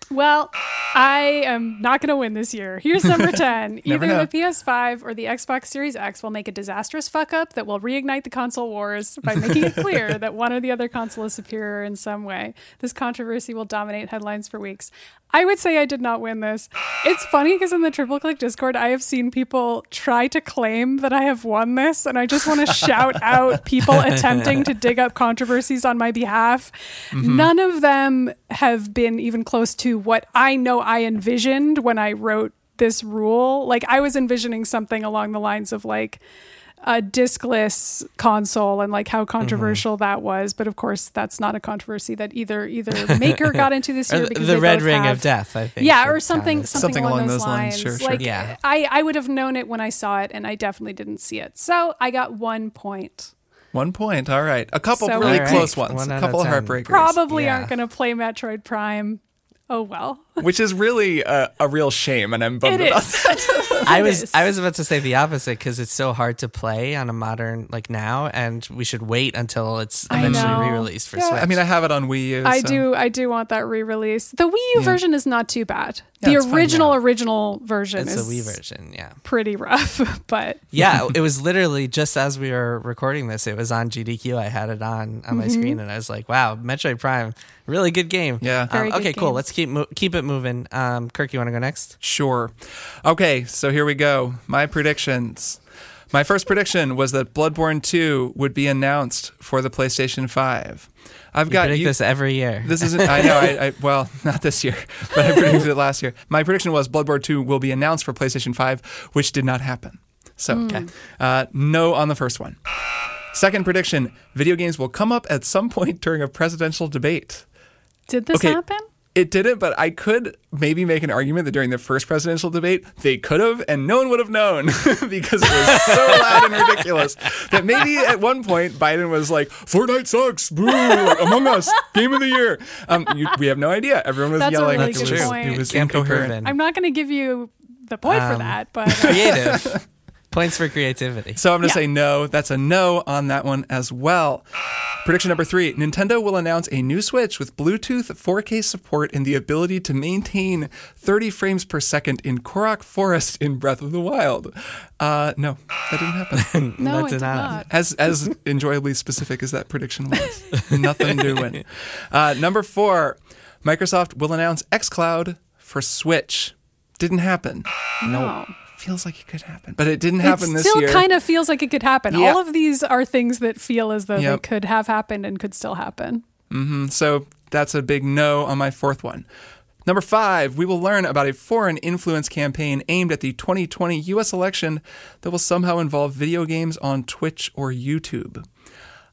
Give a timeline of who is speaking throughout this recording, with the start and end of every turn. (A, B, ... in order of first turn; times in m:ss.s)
0:00.1-0:36.2 A
0:03.8-0:04.3 B
0:27.1-0:27.5 B
0:36.8-0:45.3 A
0:39.4-0:39.8 C
0:43.2-0:46.9 C
0:45.8-0:53.3 A
0:46.7-0:48.3 B
0:48.2-0:48.6 C
0:53.7-0:57.2 B
0:54.9-0:55.6 A
0:55.2-0:57.7 C
0:56.8-1:00.4 A
1:00.4-1:03.9 B
1:02.6-1:04.4 A
1:03.8-1:11.6 C
1:10.1-1:10.9 A
1:10.1-1:12.8 B
1:12.4-1:18.6 A
1:16.2-1:16.9 B
1:16.6-1:16.9 C
1:18.0-1:19.2 C
1:19.2-1:20.6 A
1:20.7-1:31.9 C
1:20.8-1:21.1 B
1:25.3-1:25.8 A
1:28.4-1:28.7 B
1:28.7-1:29.4 A
1:32.0-1:35.6 B
1:36.1-1:42.0 B
1:41.5-1:43.5 C
1:42.6-1:52.6 B
1:50.5-1:50.9 A
1:53.3-1:57.4 B
1:58.1-1:58.8 A
1:58.3-1:58.6 B
1:59.1-2:16.4 B
2:05.8-2:06.7 C
2:14.4-2:15.7 A
2:14.7-2:16.6 C
2:16.4-2:19.6 A
2:18.1-2:19.8 C
2:19.0-2:19.8 B
2:20.3-2:21.4 C
2:21.4-2:24.4 B
2:25.0-2:36.5 B
2:36.4-2:37.6 C
2:36.8-2:37.6 A
2:37.7-2:51.1 B
2:48.0-2:48.5 A
2:50.2-2:56.2 A
2:52.1-2:52.4 B
2:54.2-2:54.4 B
2:56.5-2:59.3 B
2:59.8-3:08.4 B